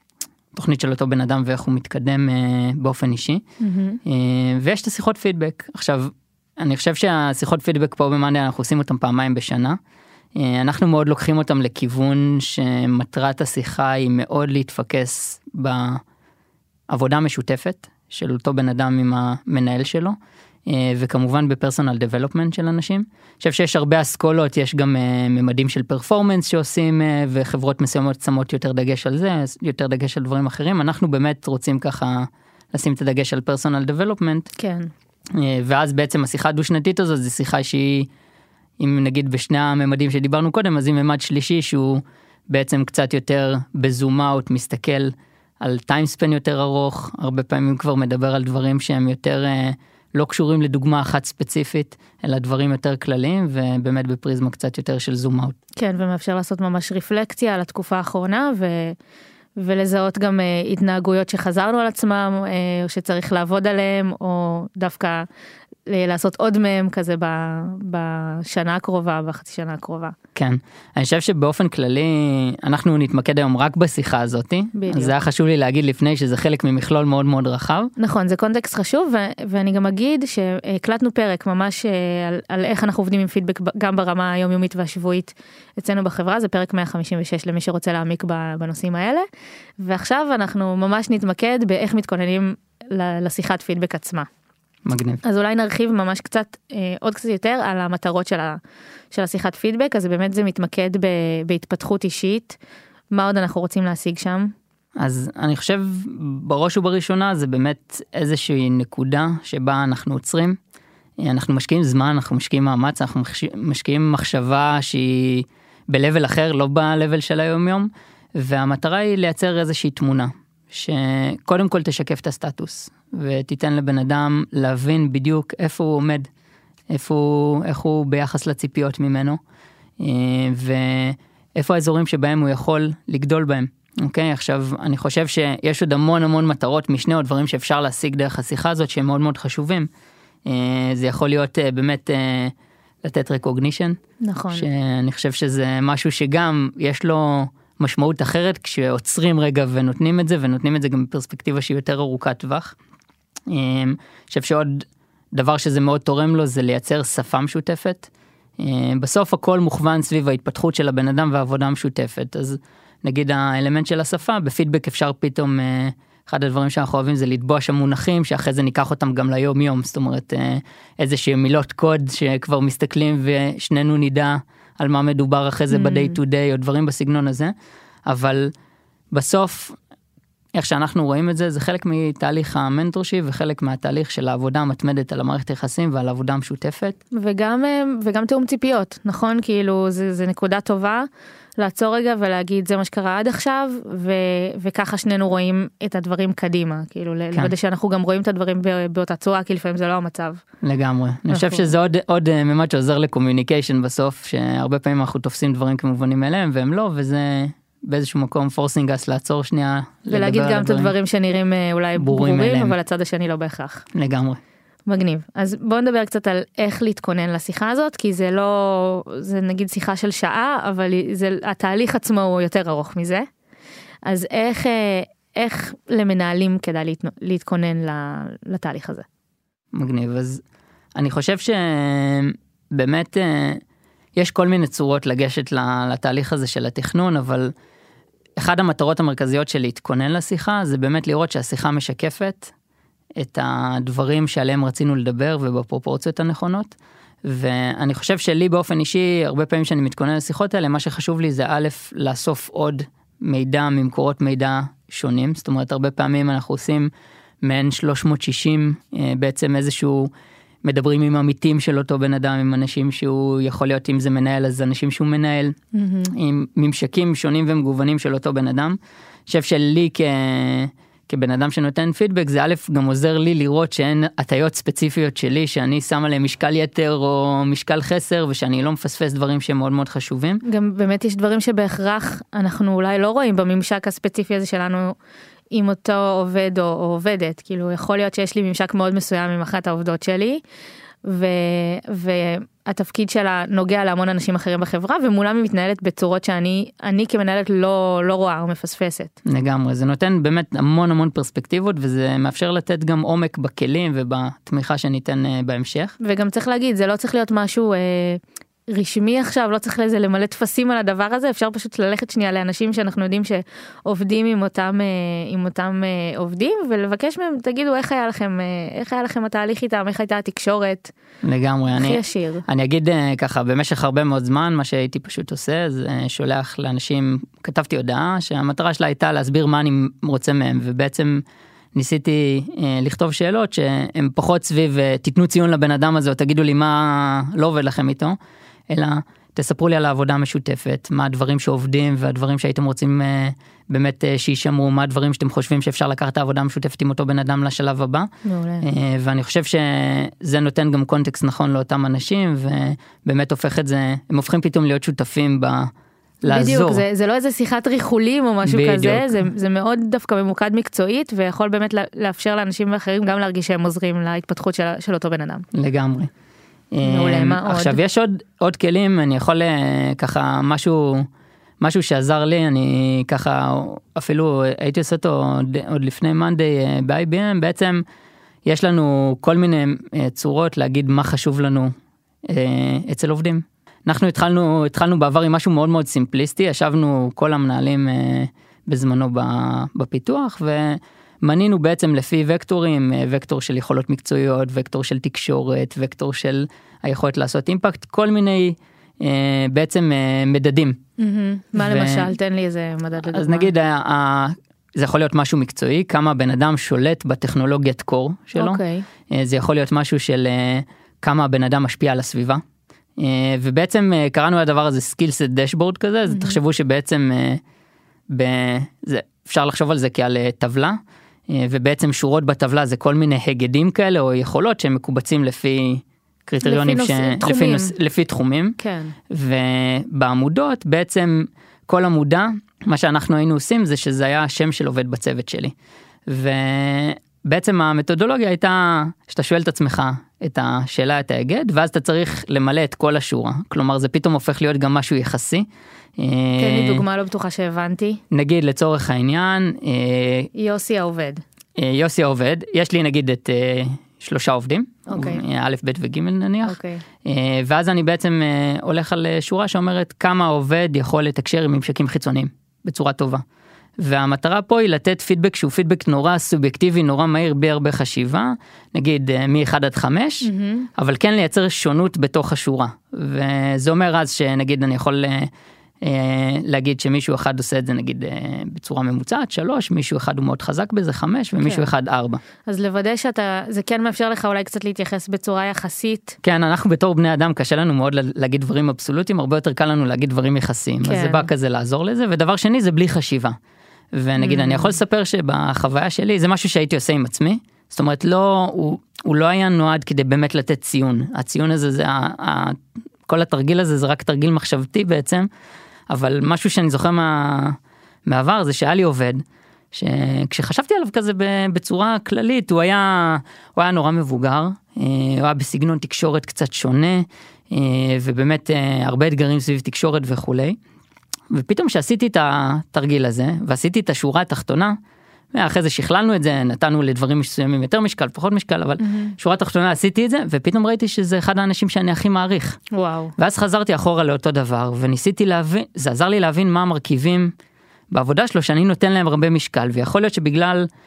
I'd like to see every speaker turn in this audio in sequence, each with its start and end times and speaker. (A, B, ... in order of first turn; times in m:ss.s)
0:00.5-0:03.4 A
0:03.6-0:04.0 B
0:04.0-0:09.8 A
0:10.4-0:16.0 A
0:16.9-0:20.2 A
0:20.7-0:34.5 A
0:34.6-0:34.9 B
0:35.3-0:38.1 A
0:38.8-0:55.6 A
0:55.8-0:59.0 B
0:59.6-1:05.3 B
1:05.9-1:10.2 B
1:10.4-1:17.9 A
1:14.8-1:15.1 B
1:18.0-1:29.3 B
1:29.8-1:34.3 B
1:34.9-1:35.2 A
1:35.2-1:38.6 B
1:39.1-1:42.6 B
1:43.1-1:44.5 B
1:45.0-1:50.6 A
1:51.2-2:06.3 A
2:06.9-2:09.4 A
2:10.0-2:19.9 A
2:20.5-2:24.0 A
2:24.2-2:24.7 B
2:24.5-2:32.8 A
2:33.5-2:57.5 A
2:55.7-2:56.2 B
2:58.1-2:58.5 A
2:59.1-2:59.8 A
3:00.6-3:07.0 A
3:07.1-3:11.1 B
3:11.6-3:20.4 B
3:20.6-3:30.9 A
3:21.3-3:21.7 B
3:30.1-3:33.9 B
3:32.0-3:32.8 A
3:33.9-3:34.4 A
3:34.9-3:43.3 B
3:44.1-3:49.1 B
3:49.7-3:50.4 A
3:51.0-3:53.6 A
3:54.2-3:57.5 A
3:58.4-4:02.5 A
4:03.2-4:16.9 A
4:17.4-4:20.1 A
4:20.6-4:25.6 A
4:25.7-4:26.1 B
4:26.1-4:40.4 A
4:40.4-4:45.0 B
4:45.5-4:50.4 B
4:51.0-4:59.2 B
4:59.2-5:06.0 A
5:06.0-5:20.9 B
5:21.2-5:38.2 A
5:21.7-5:22.4 B
5:38.7-5:48.1 A
5:48.2-5:48.7 B
5:48.6-5:55.7 A
5:56.2-5:56.8 A
5:56.3-6:05.5 B
5:58.4-5:59.1 A
6:05.5-6:06.1 A
6:06.7-6:11.1 A
6:06.8-6:07.8 B
6:11.6-6:17.8 A
6:18.4-6:21.7 A
6:22.3-6:40.8 A
6:41.0-6:43.5 B
6:41.6-6:42.1 A
6:43.0-6:52.4 A
6:48.4-6:48.9 B
6:53.0-6:57.4 A
6:56.1-6:56.4 B
6:58.1-7:00.8 A
7:01.3-7:08.6 A
7:06.4-7:07.7 B
7:08.6-7:09.0 B
7:09.1-7:15.5 A
7:16.1-7:25.5 A
7:26.0-7:26.8 A
7:26.4-7:28.0 B
7:28.1-7:30.3 A
7:30.4-7:31.2 B
7:31.6-7:43.2 A
7:34.9-7:35.2 B
7:36.4-7:36.8 B
7:43.8-7:55.3 A
7:50.2-7:50.7 B
7:55.8-8:02.2 A
8:01.4-8:01.7 B
8:02.5-8:06.2 B
8:06.2-8:13.4 A
8:10.8-8:11.3 B
8:13.9-8:25.3 A
8:14.2-8:14.8 B
8:25.9-8:40.6 A
8:41.3-8:44.8 A
8:45.3-8:52.6 A
8:48.8-8:49.2 B
8:52.7-8:53.1 B
8:53.2-8:57.3 A
8:57.9-9:00.7 A